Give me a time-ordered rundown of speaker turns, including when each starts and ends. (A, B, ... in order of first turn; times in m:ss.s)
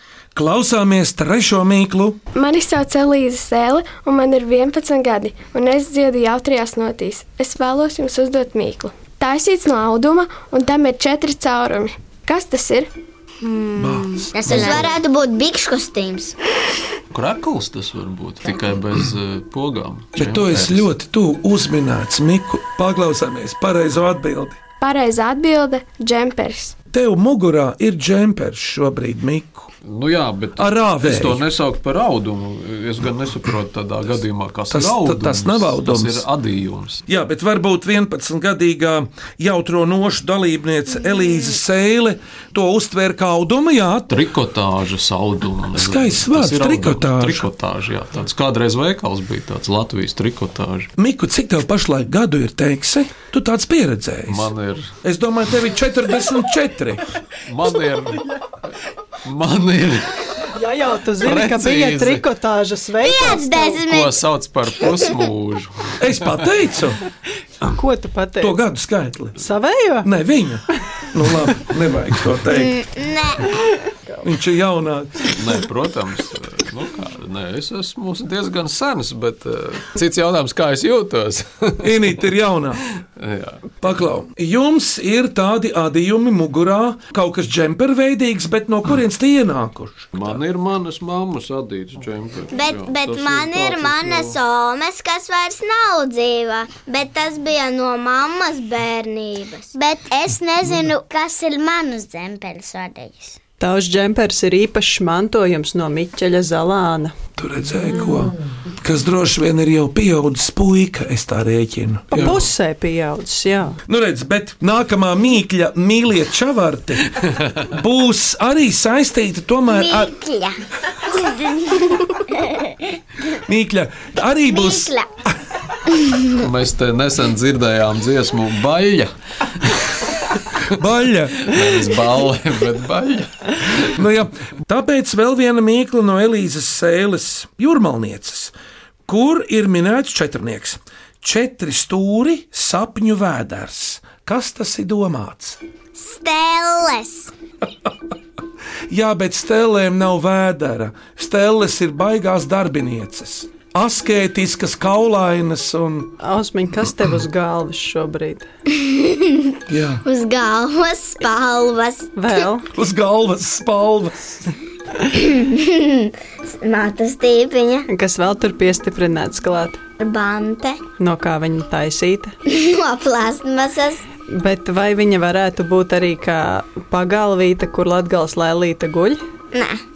0:00.3-0:02.2 A
0:02.3-0:12.9 B
0:13.4-0:14.9 C
0:13.8-0:14.9 A
0:14.4-0:16.3 D
0:17.1-0:20.9 E
0:20.2-0:24.6 A
0:24.8-0:26.8 B
0:26.9-0:29.7 A
0:29.8-0:37.0 E
0:30.6-0:31.4 A
0:34.7-0:36.2 A
0:37.1-0:44.2 A
0:44.1-0:50.9 E
0:45.7-0:47.4 A
0:51.0-0:54.5 A
0:54.3-0:54.9 E
0:55.0-0:57.0 A
0:57.4-0:58.3 E
0:59.2-1:00.2 E
1:00.5-1:03.8 F
1:01.2-1:02.2 E
1:03.0-1:04.2 D
1:03.8-1:06.3 E
1:06.0-1:07.0 A
1:07.6-1:08.6 F
1:08.4-1:09.4 A
1:09.4-1:10.1 F
1:10.0-1:12.8 A
1:12.5-1:13.5 D
1:14.2-1:15.3 A
1:15.3-1:22.1 E
1:21.8-1:22.8 A
1:23.2-1:23.6 E
1:23.8-1:30.4 A
1:30.1-1:34.4 E
1:32.5-1:39.7 D
1:39.7-1:43.4 C
1:43.6-1:47.1 F
1:47.4-1:52.4 A
1:52.1-1:53.8 F
1:52.2-1:52.4 E
1:53.9-2:00.1 A
1:59.7-2:00.6 C
2:01.1-2:02.7 C
2:03.4-2:04.9 A
2:04.5-2:05.1 C
2:06.3-2:09.8 E
2:10.7-2:11.5 A
2:11.4-2:13.9 E
2:13.9-2:18.5 A
2:19.1-2:25.6 A
2:26.0-2:27.3 D
2:28.9-2:36.2 A
2:36.2-2:38.4 F
2:38.7-2:42.1 D
2:39.7-2:40.0 A
2:42.2-2:42.7 F
2:42.7-2:44.5 A
2:45.1-2:47.9 D
2:47.9-2:49.8 F
2:50.0-2:50.8 D
2:51.0-2:52.3 F
2:52.4-2:54.0 D
2:54.3-2:59.2 F
2:59.5-2:59.8 D